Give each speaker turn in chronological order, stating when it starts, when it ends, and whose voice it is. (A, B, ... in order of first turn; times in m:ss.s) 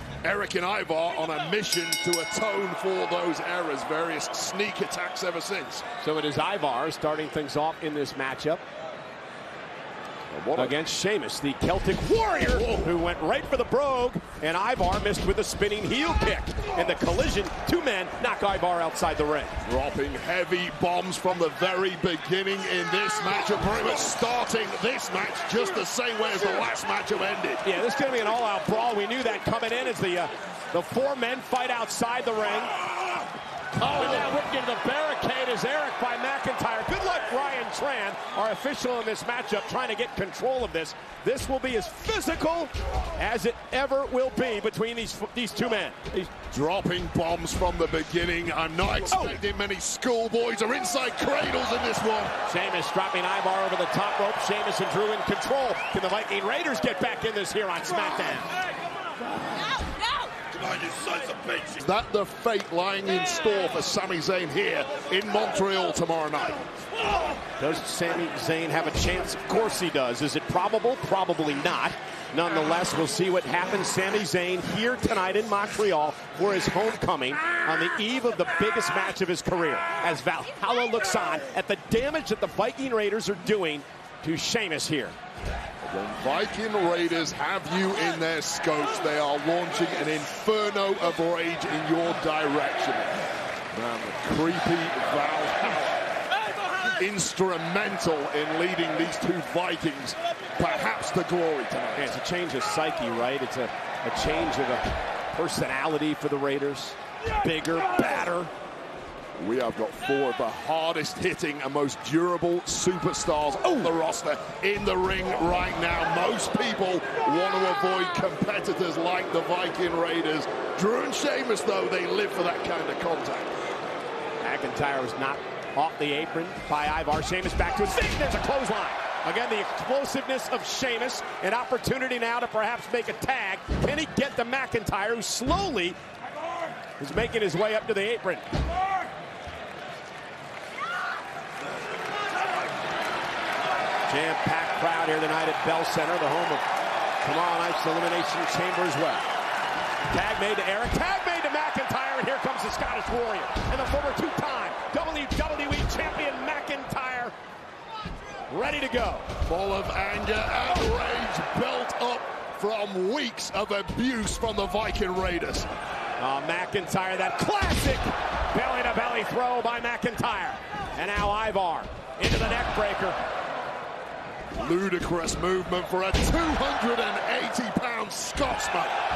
0:00.2-0:05.8 A
0:06.0-0:08.6 B
0:10.3-0:10.8 A
0:10.5-0:19.6 B
0:12.4-0:12.9 A
0:19.6-0:27.6 A
0:27.6-0:32.8 B
0:33.7-0:34.3 A
0:33.8-0:46.3 B
0:46.5-0:52.3 A
0:52.4-0:58.5 B
1:01.6-1:06.6 A
1:07.6-1:25.2 B
1:25.8-1:33.2 A
1:33.7-1:36.0 A
1:37.0-1:42.1 A
1:42.0-1:48.5 B
1:49.4-2:03.5 A
1:53.7-1:53.9 B
2:04.4-2:16.0 B
2:17.0-2:18.4 B
2:24.1-2:26.6 B
2:27.2-2:29.2 B
2:30.1-2:37.3 B
2:38.5-2:39.3 B
2:39.4-2:45.7 A
2:46.2-2:53.2 B
2:54.6-2:59.0 A